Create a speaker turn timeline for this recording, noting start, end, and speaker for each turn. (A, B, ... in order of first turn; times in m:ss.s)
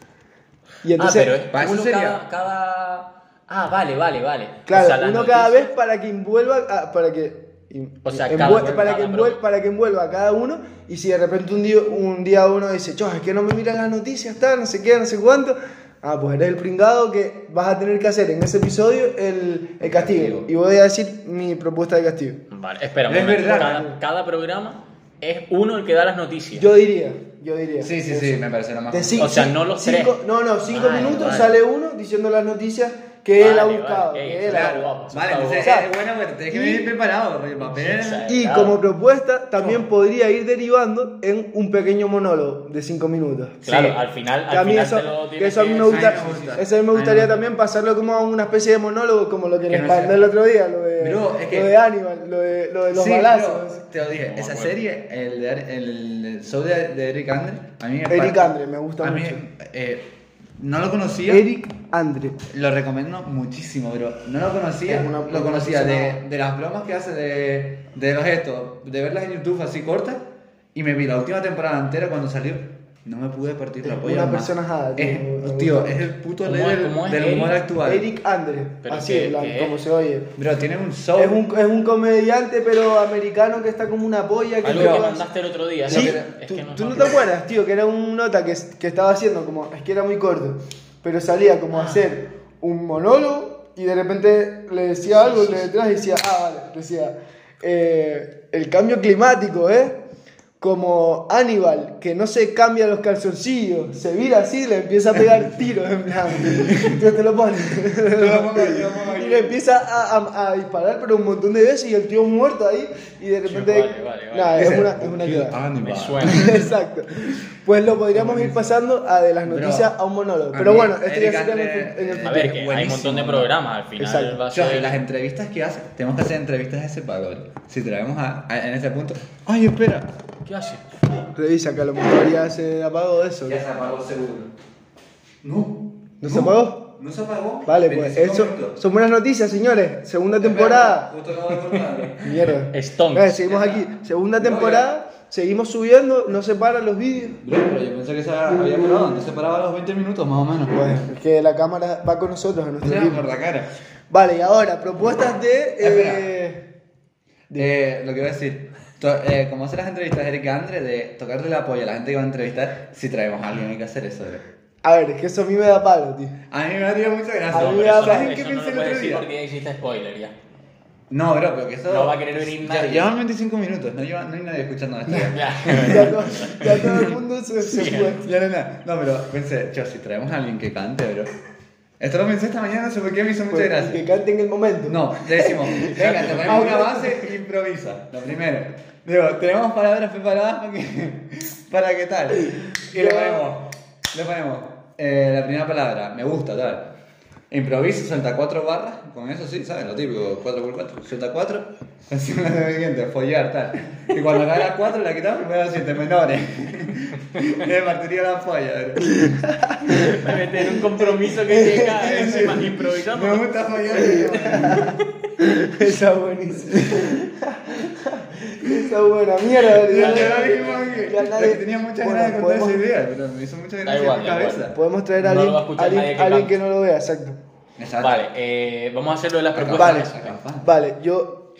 0:00.8-0:01.4 A
0:01.0-0:05.7 B
0:01.5-0:02.2 C
0:04.7-0:22.4 A
0:08.0-0:09.4 B
0:19.8-0:20.5 C
0:22.5-0:26.7 B
0:23.1-0:23.9 C
0:23.5-0:24.0 A
0:26.5-0:34.9 A
0:27.8-0:29.5 C
0:29.2-0:30.2 B
0:30.7-0:31.4 B
0:30.7-0:31.6 C
0:33.4-0:35.7 B
0:34.4-0:38.3 C
0:35.5-0:35.9 A
0:36.5-0:36.9 A
0:37.6-0:38.8 B
0:38.2-0:43.9 A
0:43.6-0:46.5 B
0:44.5-0:53.8 A
0:45.9-0:47.4 C
0:49.7-0:50.3 C
0:51.0-0:51.8 C
0:52.9-1:01.4 C
0:54.2-0:54.8 B
0:58.1-0:59.4 A
1:01.3-1:02.4 A
1:02.5-1:18.1 C
1:04.8-1:06.2 A
1:13.8-1:16.1 A
1:16.4-1:17.6 B
1:17.8-1:20.3 A
1:18.8-1:19.8 B
1:20.4-1:21.4 C
1:21.2-1:25.2 A
1:24.6-1:27.2 B
1:24.6-1:25.1 C
1:25.9-1:40.0 A
1:25.9-1:26.3 C
1:31.7-1:32.0 B
1:35.1-1:35.7 B
1:40.6-1:55.6 A
1:46.4-1:47.0 C
1:48.1-1:49.6 C
1:53.4-1:54.9 B
1:54.6-1:56.7 C
1:55.7-1:56.7 B
1:56.2-2:02.6 A
1:58.1-1:58.8 C
1:59.4-2:00.0 C
2:00.5-2:03.5 C
2:02.2-2:05.0 B
2:04.0-2:04.4 A
2:04.5-2:10.1 C
2:10.4-2:10.8 B
2:11.3-2:13.6 A
2:13.4-2:14.5 C
2:15.4-2:18.8 C
2:16.2-2:16.9 A
2:17.6-2:21.1 A
2:20.4-2:22.5 C
2:22.2-2:27.4 A
2:22.7-2:23.5 B
2:23.4-2:24.9 C
2:27.4-2:31.0 C
2:30.7-2:33.3 A
2:32.8-2:33.7 C
2:34.1-2:36.6 A
2:35.8-2:36.3 C
2:37.5-2:44.4 C
2:44.8-2:46.3 A
2:46.5-2:49.3 C
2:47.5-2:50.3 B
2:47.6-2:48.3 A
2:51.1-2:57.1 C
2:51.9-2:53.1 B
2:55.1-2:57.0 B
2:55.2-2:58.3 A
2:57.6-2:58.2 B
2:58.2-3:01.3 C
3:02.0-3:04.0 C
3:03.5-3:07.3 A
3:04.9-3:17.0 C
3:12.9-3:13.5 A
3:17.5-3:29.4 C
3:29.1-3:32.6 A
3:29.9-3:33.6 B
3:31.9-3:35.0 C
3:33.9-3:42.8 A
3:34.5-3:35.0 B
3:39.6-3:44.8 C
3:39.9-3:40.9 B
3:43.8-3:46.6 B
3:44.7-3:47.4 A
3:47.8-3:48.3 C
3:48.0-3:50.3 B
3:49.5-3:50.7 C
3:49.7-3:51.4 A